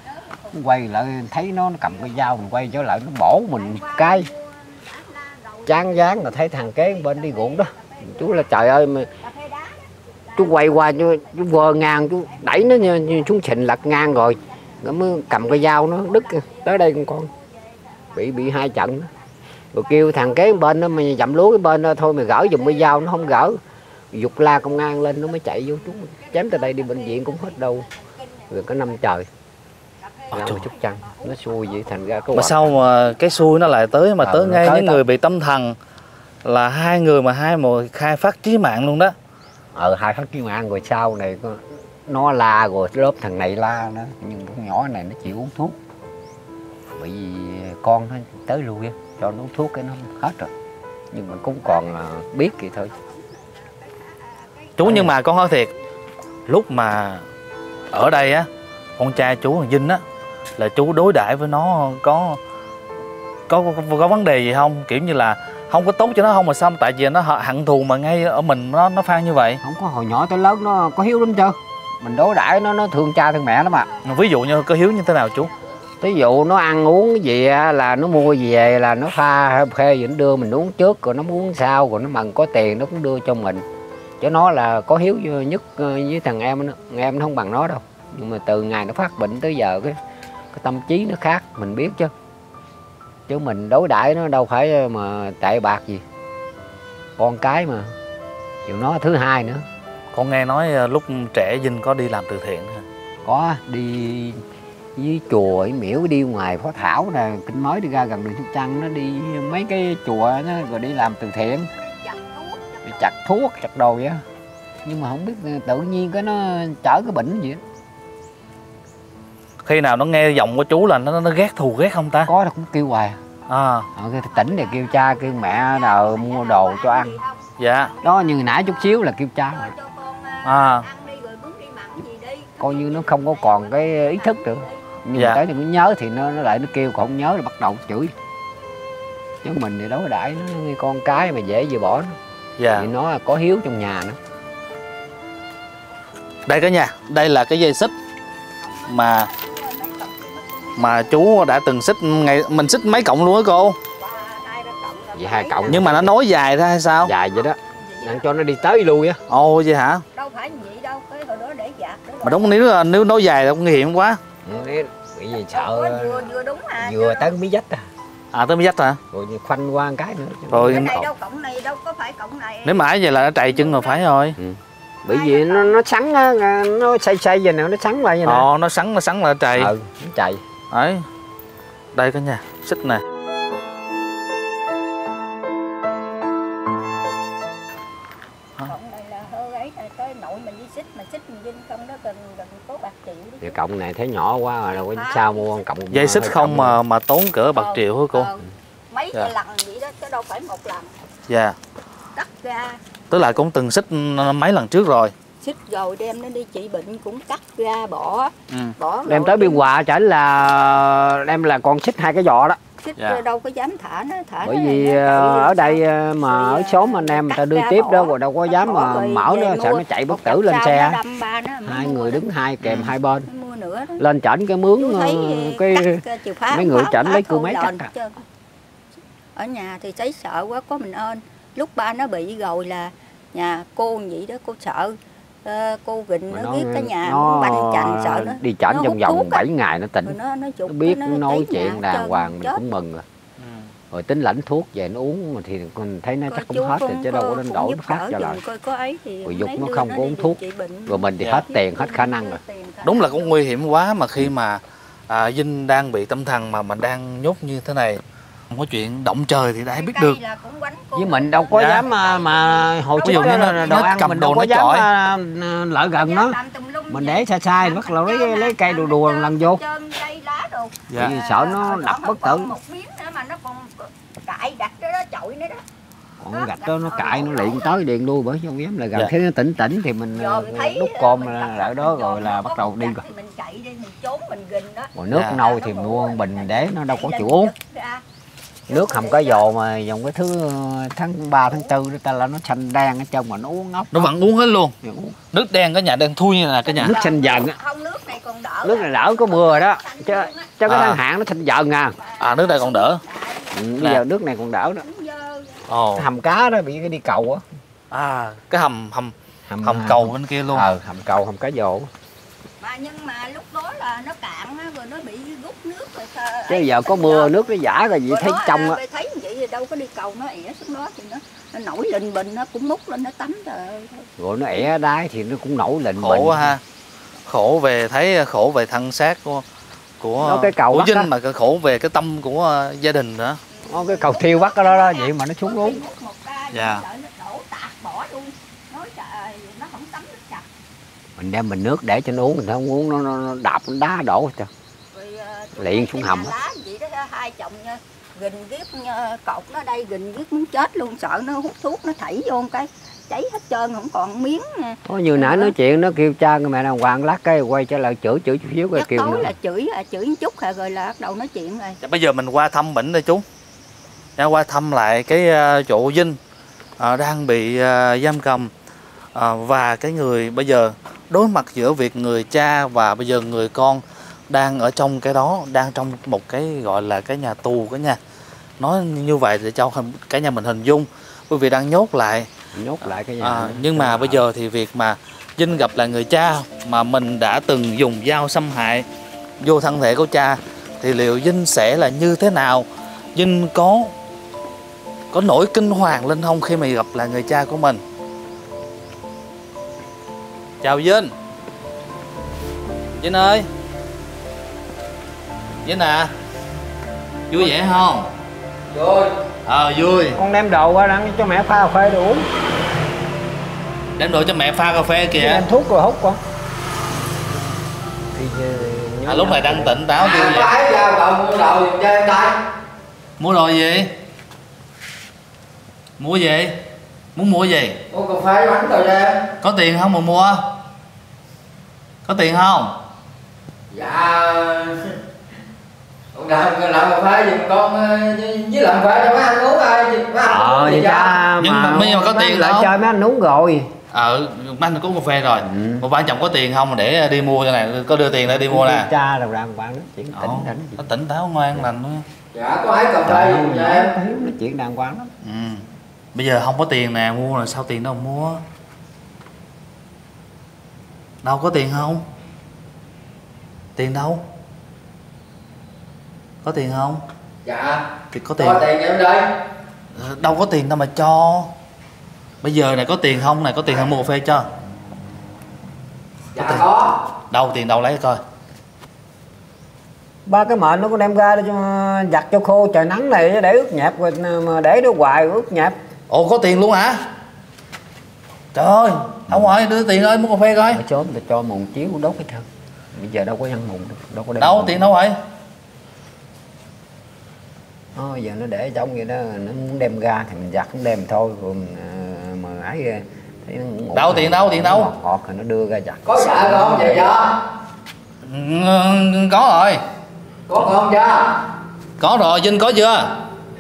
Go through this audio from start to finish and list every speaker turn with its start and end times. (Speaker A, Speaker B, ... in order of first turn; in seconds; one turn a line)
Speaker A: 0.5-4.3
Speaker B: 3.6-8.3
Speaker A: 5.7-9.1
Speaker B: 9.2-11.2
Speaker A: 10.3-17.3
Speaker B: 15.1-16.7
Speaker B: 18.0-18.4
Speaker A: 18.1-19.1
Speaker A: 19.7-23.6
Speaker B: 19.9-20.5
Speaker B: 22.5-23.2
Speaker A: 24.1-27.9
Speaker B: 26.1-28.8
Speaker A: 28.5-29.3
Speaker B: 30.0-31.8
Speaker C: 30.3-30.6
Speaker A: 30.3-32.7
Speaker C: 32.3-35.8
Speaker A: 34.2-35.0
Speaker C: 36.4-39.1
Speaker A: 39.7-45.8
Speaker A: 46.9-50.5
Speaker A: 51.1-52.9
Speaker B: 52.8-55.1
Speaker C: 54.8-55.7
Speaker A: 54.8-55.1
Speaker C: 56.5-57.2
Speaker C: 57.9-60.0
Speaker C: 60.6-62.4
Speaker C: 63.5-69.6
Speaker A: 69.6-73.9
Speaker C: 74.0-75.5
Speaker A: 76.0-83.6
Speaker A: 84.2-90.0
Speaker A: 90.5-92.1
Speaker A: 93.3-96.0
Speaker A: 97.2-97.9
Speaker A: 98.6-99.7
Speaker C: 100.1-102.8
Speaker A: 103.2-104.4
Speaker A: 105.0-111.7
Speaker B: 111.8-113.1
Speaker A: 112.8-114.2
Speaker A: 114.8-117.6
Speaker C: 119.6-122.3
Speaker A: 122.3-123.2
Speaker C: 123.5-123.9
Speaker A: 123.9-127.1
Speaker B: 124.3-129.0
Speaker C: 127.6-127.9
Speaker A: 128.0-129.7
Speaker B: 129.5-134.8
Speaker C: 130.4-130.8
Speaker A: 132.6-138.1
Speaker C: 135.1-135.4
Speaker A: 139.4-142.2
Speaker C: 142.6-142.9
Speaker A: 142.7-144.2
Speaker C: 146.5-147.9
Speaker B: 148.6-151.5
Speaker C: 148.9-149.3
Speaker C: 150.8-153.8
Speaker B: 153.9-156.0
Speaker A: 155.1-156.1
Speaker C: 155.7-157.1
Speaker A: 157.0-159.2
Speaker B: 157.5-158.2
Speaker C: 159.3-160.0
Speaker B: 160.1-162.6
Speaker C: 162.2-164.2
Speaker A: 164.4-167.8
Speaker B: 165.5-167.3
Speaker C: 168.3-169.0
Speaker A: 169.1-171.1
Speaker C: 170.5-171.0
Speaker B: 170.6-174.0
Speaker C: 172.6-174.4
Speaker A: 174.4-178.5
Speaker B: 175.1-175.8
Speaker C: 178.2-179.7
Speaker A: 179.6-180.4
Speaker C: 180.7-181.1
Speaker C: 181.9-183.0
Speaker B: 188.6-193.6
Speaker A: 193.4-196.8
Speaker B: 194.7-195.5
Speaker C: 195.9-198.3
Speaker B: 197.6-200.9
Speaker C: 201.3-201.6
Speaker B: 202.2-202.8
Speaker C: 203.1-205.1
Speaker B: 205.4-209.7
Speaker C: 208.5-208.7
Speaker A: 209.1-212.6
Speaker B: 212.8-222.2
Speaker C: 213.0-213.2
Speaker A: 214.4-221.0
Speaker A: 221.6-223.3
Speaker C: 222.6-222.9
Speaker B: 223.2-224.0
Speaker A: 224.0-227.9
Speaker B: 224.8-228.2
Speaker B: 229.3-239.4
Speaker A: 236.3-243.0
Speaker B: 240.0-242.6
Speaker C: 243.4-243.7
Speaker A: 243.9-248.4
Speaker B: 246.3-253.3
Speaker A: 249.2-252.4
Speaker C: 252.8-260.2
Speaker B: 259.7-263.9
Speaker A: 260.9-266.4
Speaker C: 261.5-261.8
Speaker C: 263.0-264.9
Speaker B: 266.0-275.6
Speaker A: 266.9-269.6
Speaker C: 270.9-271.1
Speaker A: 271.0-272.5
Speaker A: 276.2-283.0
Speaker B: 276.3-277.8
Speaker B: 280.1-288.0
Speaker A: 284.9-287.5
Speaker C: 285.1-285.4
Speaker B: 288.7-289.4
Speaker A: 288.7-294.1
Speaker C: 293.9-294.7
Speaker A: 294.8-295.2
Speaker C: 295.3-296.9
Speaker B: 296.6-300.6
Speaker A: 296.8-297.6
Speaker A: 298.6-302.0
Speaker C: 300.6-301.0
Speaker B: 302.0-303.6
Speaker C: 302.2-303.0
Speaker A: 303.5-304.8
Speaker B: 304.8-305.6
Speaker C: 305.7-306.1
Speaker A: 305.9-307.4
Speaker C: 307.9-310.7
Speaker A: 309.5-311.9
Speaker B: 312.6-317.4
Speaker A: 316.5-318.8
Speaker B: 318.1-324.1
Speaker A: 324.2-326.5
Speaker C: 326.0-326.6
Speaker C: 327.3-329.4
Speaker C: 330.0-333.4
Speaker A: 330.2-331.1
Speaker B: 333.5-340.4
Speaker A: 333.7-335.8
Speaker C: 336.5-336.8
Speaker A: 341.2-344.5
Speaker B: 344.9-355.5
Speaker A: 345.6-346.3
Speaker A: 354.9-359.3
Speaker B: 358.7-361.8
Speaker C: 361.8-363.2
Speaker C: 364.2-366.2
Speaker C: 366.8-368.5
Speaker C: 369.1-378.0
Speaker C: 378.6-382.3
Speaker A: 382.5-384.2
Speaker C: 383.2-388.9
Speaker C: 389.4-393.9
Speaker C: 395.1-397.8
Speaker C: 400.6-401.1
Speaker C: 403.0-403.5
Speaker C: 405.6-406.1
Speaker C: 407.3-408.1
Speaker D: 408.7-409.1
Speaker C: 409.4-410.2
Speaker A: 410.2-412.3
Speaker C: 414.0-415.4
Speaker A: 415.1-416.2
Speaker A: 418.1-419.8
Speaker C: 419.0-420.5
Speaker D: 419.9-422.4
Speaker C: 423.2-423.9
Speaker C: 426.0-426.6
Speaker C: 427.1-427.8
Speaker D: 427.9-429.2
Speaker C: 429.4-430.5
Speaker C: 432.1-432.8
Speaker D: 433.7-434.9
Speaker D: 436.1-441.2
Speaker A: 440.2-443.7
Speaker C: 441.4-442.7
Speaker C: 443.9-448.9
Speaker A: 445.4-445.9
Speaker A: 448.2-450.8
Speaker C: 450.1-452.0
Speaker D: 452.3-453.9
Speaker A: 453.0-455.1
Speaker C: 455.2-458.4
Speaker C: 461.2-462.1
Speaker C: 463.8-464.2
Speaker C: 466.4-467.0
Speaker D: 467.4-467.8
Speaker C: 468.1-468.6
Speaker D: 468.4-469.3
Speaker C: 469.9-471.5
Speaker C: 472.4-474.5
Speaker D: 476.3-477.0
Speaker C: 477.3-478.2
Speaker A: 480.2-485.8
Speaker C: 486.1-487.0
Speaker C: 488.5-490.8
Speaker A: 490.7-494.9
Speaker C: 494.4-495.2
Speaker A: 497.9-507.1
Speaker C: 503.9-504.9
Speaker D: 506.1-507.4
Speaker C: 508.2-509.8
Speaker D: 510.5-511.4
Speaker C: 512.0-513.1